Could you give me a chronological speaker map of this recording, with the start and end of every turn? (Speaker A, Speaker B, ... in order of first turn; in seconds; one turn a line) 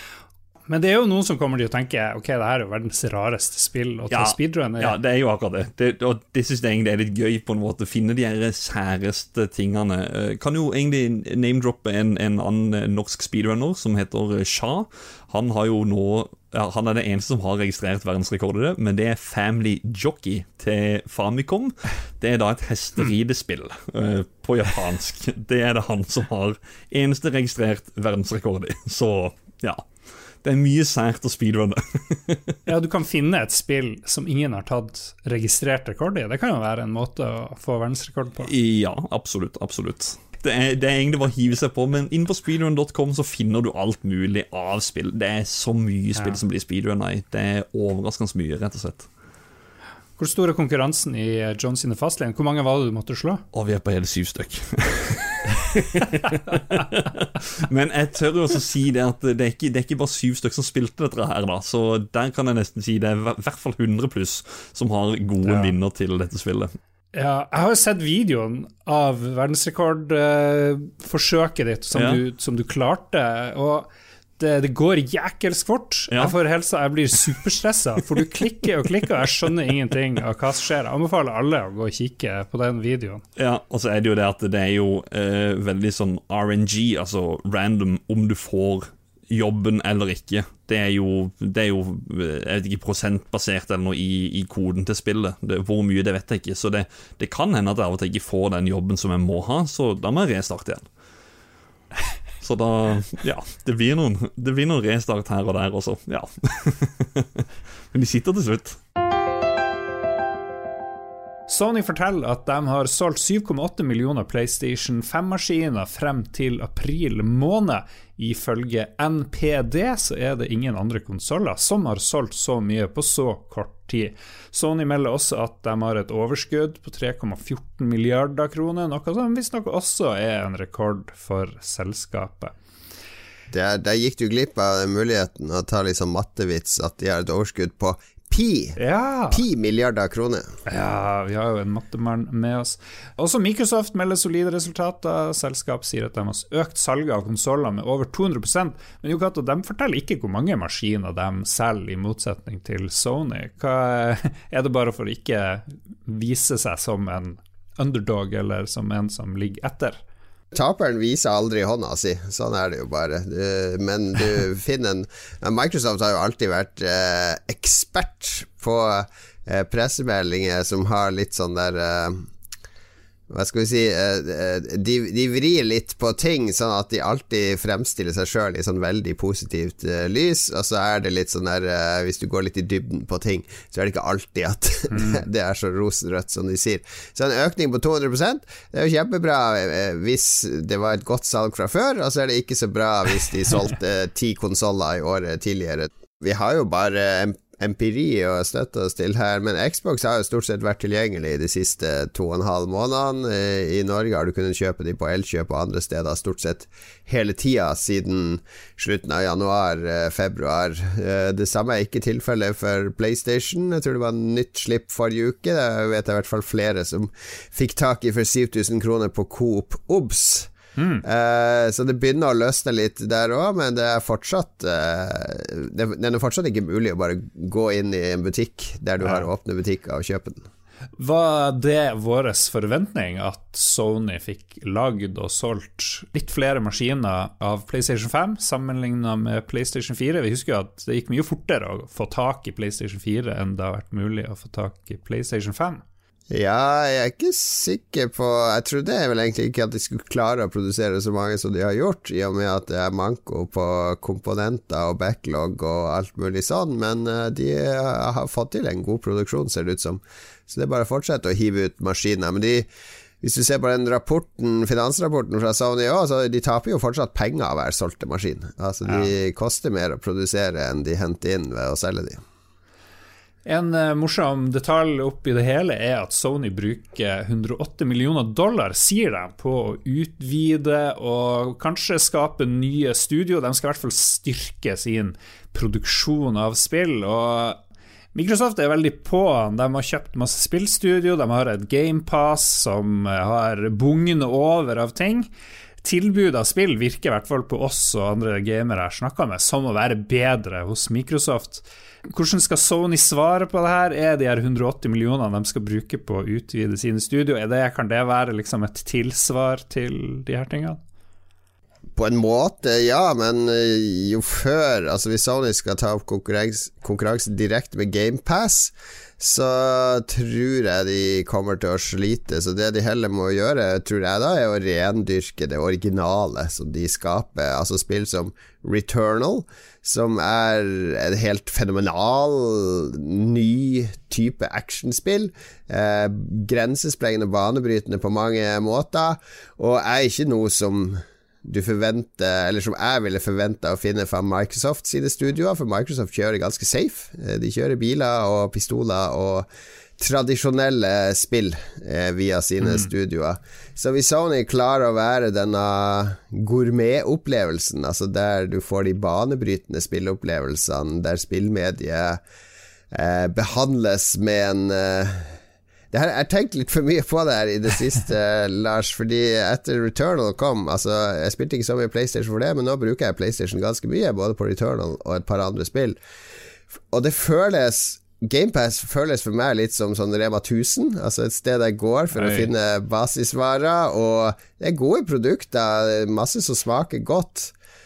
Speaker A: 0.7-5.0
Speaker B: 4.1-29.9
Speaker B: 30.4-32.6
Speaker A: 32.7-38.5
Speaker B: 38.4-49.1
Speaker A: 50.2-53.4
Speaker B: 53.5-66.7
Speaker A: 65.5-65.7
Speaker A: 67.2-73.9
Speaker B: 72.0-72.2
Speaker A: 74.4-83.2
Speaker B: 83.4-100.9
Speaker B: 102.4-108.8
Speaker A: 111.5-132.5
Speaker C: 133.5-138.8
Speaker A: 138.8-139.4
Speaker C: 139.3-140.5
Speaker A: 140.7-160.0
Speaker C: 160.5-172.3
Speaker C: 173.3-220.5
Speaker A: 184.9-185.2
Speaker A: 220.8-221.1
Speaker C: 221.0-230.5
Speaker A: 231.0-245.8
Speaker C: 246.3-262.7
Speaker C: 263.2-272.2
Speaker A: 273.4-287.6
Speaker A: 288.1-295.3
Speaker A: 295.8-310.8
Speaker C: 312.0-362.2
Speaker A: 352.6-352.9
Speaker C: 362.9-365.4
Speaker C: 365.9-376.0
Speaker C: 376.9-387.5
Speaker A: 382.1-382.5